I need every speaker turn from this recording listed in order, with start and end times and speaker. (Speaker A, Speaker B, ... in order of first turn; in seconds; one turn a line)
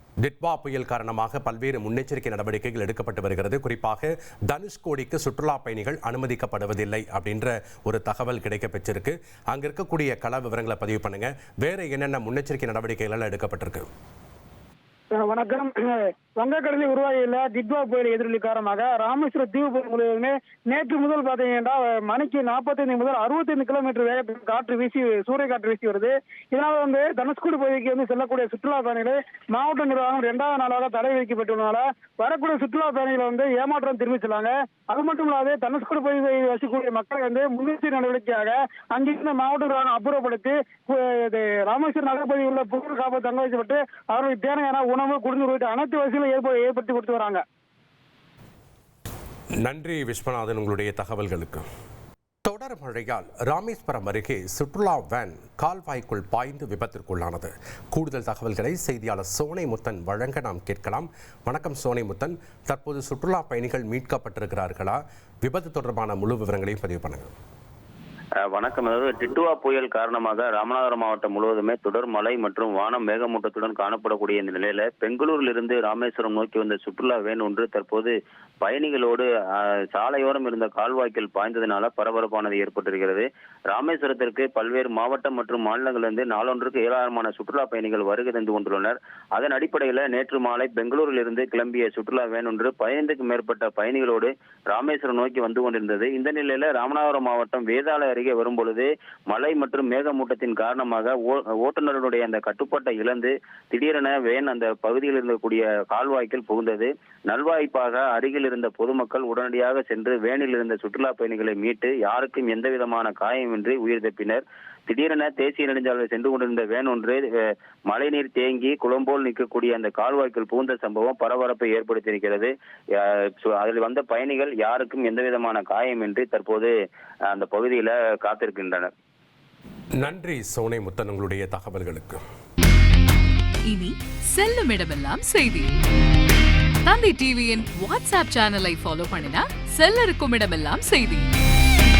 Speaker A: 0.2-13.9
Speaker B: 15.1-47.4
Speaker A: 49.6-51.6
Speaker A: 52.5-67.3
Speaker C: 68.5-117.2
Speaker C: 117.9-126.7
Speaker C: 127.3-128.9
Speaker A: 130.0-132.2
Speaker D: 133.7-135.8
Speaker D: 136.8-141.3